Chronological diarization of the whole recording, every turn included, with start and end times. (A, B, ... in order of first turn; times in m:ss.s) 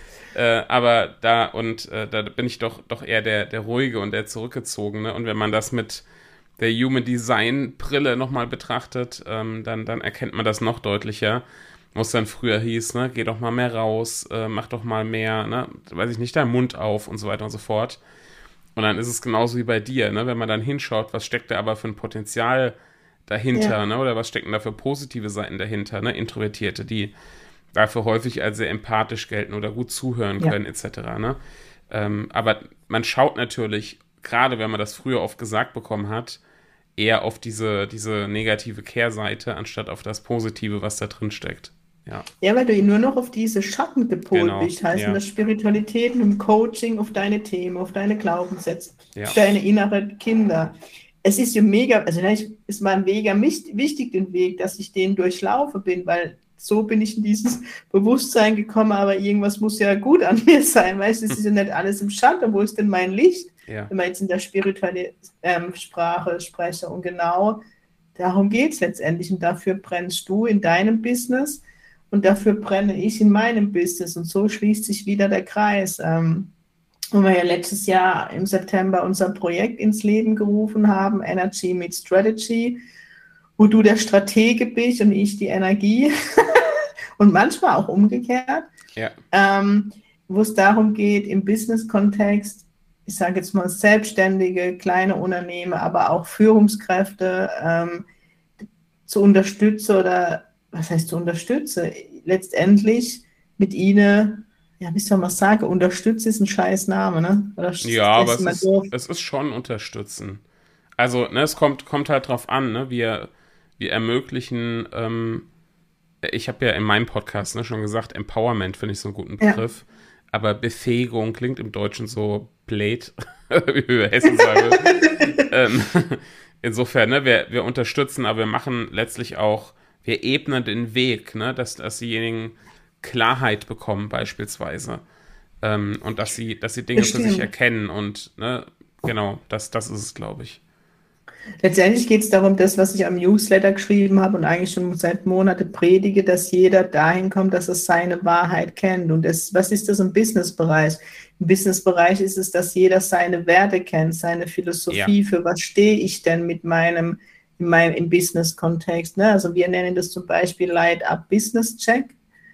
0:00.3-0:06.0 A
0:06.6-0:18.0 A
0:18.8-0:22.8 A
0:23.3-0:27.1 A
0:27.7-0:31.4 A
0:31.9-0:36.4 A
0:37.0-0:42.2 A
0:42.4-1:07.6 B
0:44.3-0:45.2 A
1:08.2-1:16.5 B
1:17.1-1:22.8 B
1:23.6-1:28.7 B
1:29.3-1:38.1 B
1:39.1-1:48.9 B
1:47.8-1:50.4 A
1:51.0-1:55.4 A
1:56.2-2:15.0 A
2:04.5-2:05.4 B
2:15.6-2:20.6 A
2:17.0-2:17.5 B
2:21.6-2:42.1 B